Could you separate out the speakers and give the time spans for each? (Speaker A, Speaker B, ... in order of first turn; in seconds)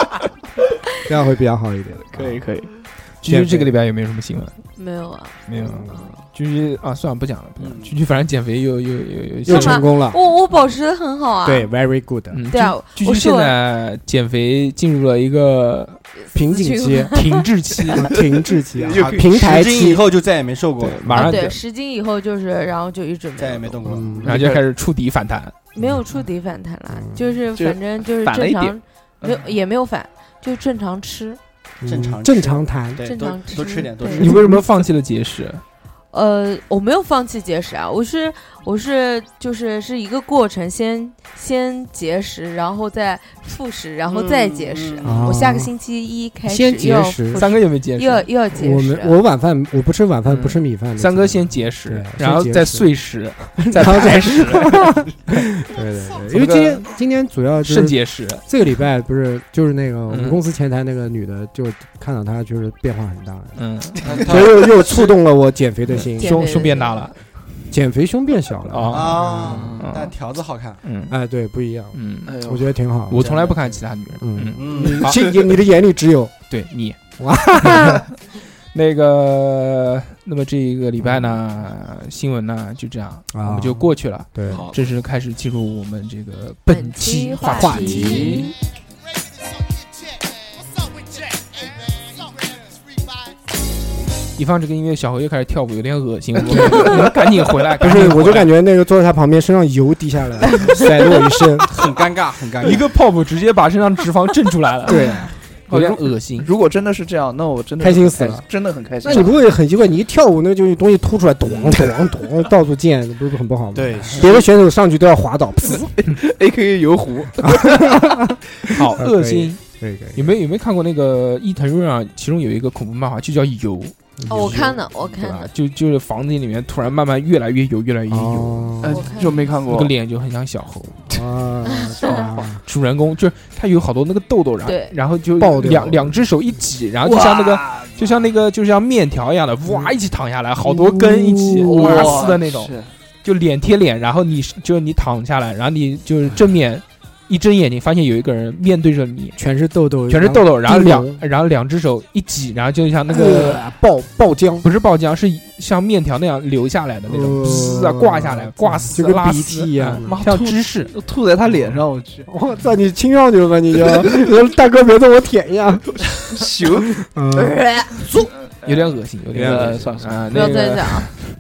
Speaker A: 1.0-2.5, 3.2-3.8, 5.6-6.0, 9.5-10.2, 11.4-12.4, 16.3-17.2, 17.9-20.0, 23.8-24.3, 26.9-27.2, 31.8-33.1, 34.1-34.6, 45.0-45.7, 46.5-47.4, 48.5-52.9, 53.6-63.6, 64.2-66.5, 67.7-69.8, 71.1-73.4, 74.2-76.3, 77.2-78.0, 81.0-81.4, 83.3-84.6, 87.4-88.5, 96.5-97.1, 97.8-101.7, 104.9-105.3, 107.8-108.4, 109.0-116.0, 117.4-120.3, 124.2-124.6, 128.1-129.1, 131.1-132.6, 135.4-136.2, 140.6-142.2, 149.4-151.2, 153.1-154.7, 157.1-160.2, 162.3-166.1, 167.0-168.2, 169.3-169.9
Speaker B: 2.1-2.7, 18.1-19.3, 24.2-24.6, 27.6-29.5, 72.3-72.7, 84.5-84.7, 105.7-109.3, 116.0-118.2, 128.8-129.9, 137.0-138.2, 141.6-142.9, 160.0-162.3, 166.1-167.0, 168.3-170.5
Speaker C: 3.2-4.6, 5.5-9.9, 12.3-16.0, 17.1-18.1, 20.8-21.6, 24.2-25.5, 34.1-35.6, 47.3-48.3, 50.3-55.0, 56.3-56.9, 57.6-58.4, 60.1-60.4, 63.6-64.4, 65.9-67.2, 68.7-70.1, 70.8-71.2, 71.9-72.4, 73.1-75.3, 76.5-77.0, 77.6-78.0, 78.7-88.5, 94.4-98.5, 102.6-105.1, 105.7-106.5, 118.7-119.6, 120.2-128.8, 129.7-131.1, 132.1-142.7, 143.2-149.4, 150.1-153.7, 154.6-160.9, 168.7-171.2
Speaker D: 4.8-6.1, 9.5-11.7, 12.5-13.6, 16.2-17.4, 21.2-23.8, 25.7-31.4, 33.0-34.4, 36.1-49.1, 66.2-67.0, 86.7-88.5, 124.3-125.5, 128.9-129.5, 131.7-132.3, 134.6-135.0, 167.4-168.1, 170.3-171.1
Speaker E: 7.6-8.0, 18.8-21.3, 23.4-24.4, 31.9-34.4, 44.1-45.3, 64.0-65.1, 68.9-70.8, 73.2-73.7, 74.6-75.3, 101.6-102.8, 113.7-114.5